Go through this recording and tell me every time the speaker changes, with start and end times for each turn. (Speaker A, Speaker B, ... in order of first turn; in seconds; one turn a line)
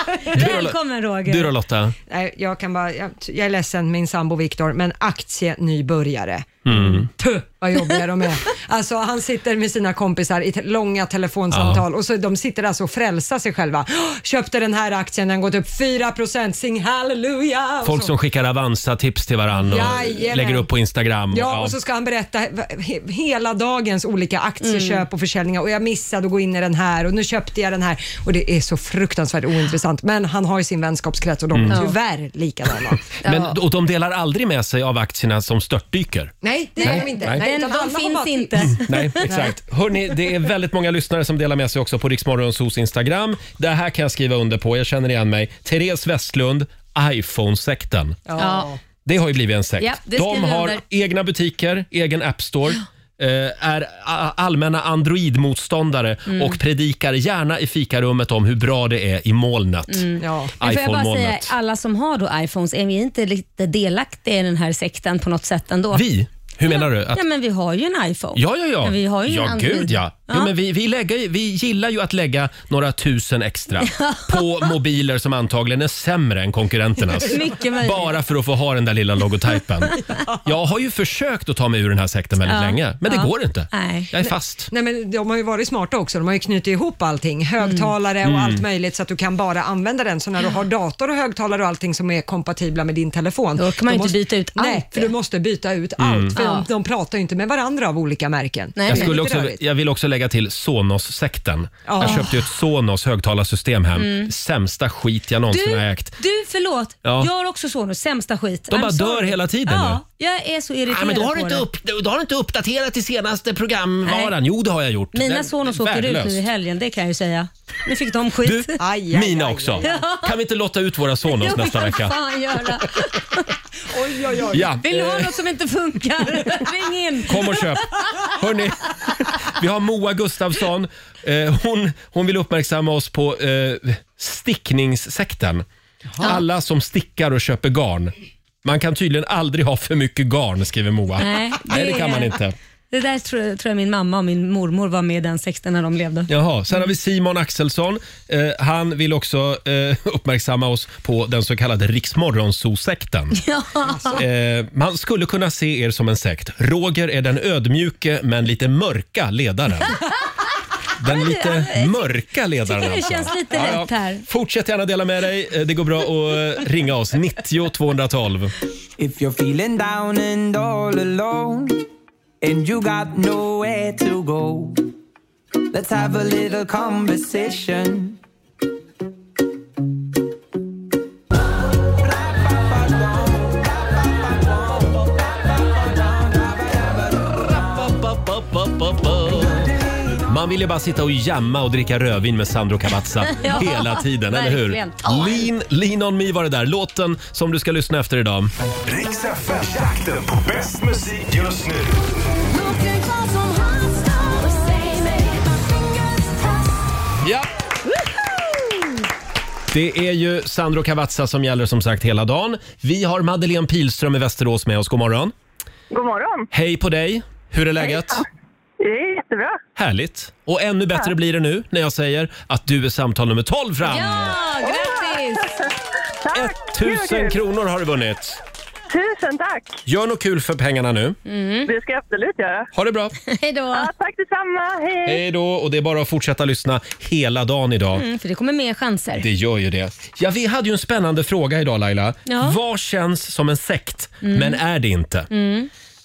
Speaker A: 0.2-1.5
Speaker B: 0.3-1.9
Speaker C: 2.1-18.1
Speaker B: 6.7-7.1
Speaker B: 11.5-11.8
Speaker B: 17.8-21.8
Speaker C: 19.6-20.6
Speaker C: 21.3-33.2
Speaker A: 24.6-25.1
Speaker B: 31.5-31.8
Speaker A: 31.7-32.0
Speaker B: 33.2-37.4
Speaker A: 33.2-33.5
Speaker C: 36.4-38.7
Speaker A: 36.8-39.4
Speaker B: 38.7-48.3
Speaker C: 39.3-39.5
Speaker C: 48.3-48.7
Speaker A: 48.4-48.7
Speaker B: 49.0-60.1
Speaker A: 49.8-50.8
Speaker A: 56.3-56.6
Speaker A: 59.9-66.0
Speaker C: 60.2-60.5
Speaker B: 60.6-61.5
Speaker B: 65.9-67.2
Speaker A: 66.6-70.5
Speaker B: 68.3-84.7
Speaker A: 73.9-74.4
Speaker A: 77.2-78.1
Speaker A: 82.4-84.1
Speaker C: 84.7-99.6
Speaker A: 87.6-87.9
Speaker B: 88.2-88.6
Speaker A: 93.6-95.1
Speaker B: 96.0-96.4
Speaker A: 96.3-96.7
Speaker A: 98.8-99.2
Speaker B: 98.9-106.2
Speaker C: 101.9-102.3
Speaker A: 102.0-102.3
Speaker A: 104.0-104.3
Speaker A: 105.5-111.6
Speaker B: 107.0-107.3
Speaker B: 108.7-110.0
Speaker B: 110.9-116.4
Speaker A: 114.0-114.3
Speaker A: 115.1-118.8
Speaker B: 118.4-122.1
Speaker C: 118.8-120.0
Speaker A: 119.8-120.3
Speaker A: 121.2-123.4
Speaker C: 123.9-124.7
Speaker B: 124.5-125.4
Speaker A: 124.8-128.3
Speaker B: 127.3-128.9
Speaker B: 129.5-135.6
Speaker B: 136.2-142.6
Speaker A: 141.2-142.4
Speaker A: 142.9-146.3
Speaker B: 146.3-153.4
Speaker A: 153.3-154.2
Speaker C: 153.9-154.2
Speaker B: 154.1-159.9
Speaker B: 161.0-168.5
Speaker A: 161.0-162.0
Speaker A: 162.7-164.2
Speaker D: 169.0-171.8
Speaker D: 172.4-174.8
Speaker D: 175.7-178.2
Speaker D: 182.0-187.5
Speaker B: 187.4-189.7
Speaker B: 190.3-198.5
Speaker A: 193.2-195.5
Speaker E: 198.8-202.0
Speaker B: 209.7-215.3
Speaker F: 215.9-216.5
Speaker B: 216.5-218.2
Speaker F: 218.8-219.6
Speaker B: 219.8-224.4
Speaker A: 223.8-225.5
Speaker F: 224.6-225.5
Speaker F: 226.2-227.3
Speaker B: 226.3-228.4
Speaker F: 228.9-229.8
Speaker B: 229.8-231.2
Speaker A: 231.2-231.7
Speaker F: 231.7-232.7
Speaker B: 232.7-233.1
Speaker A: 233.2-233.9
Speaker F: 233.7-235.2
Speaker B: 235.0-238.0
Speaker A: 237.9-239.2
Speaker B: 239.2-245.3
Speaker A: 242.2-242.6
Speaker A: 244.2-244.6
Speaker A: 245.3-245.7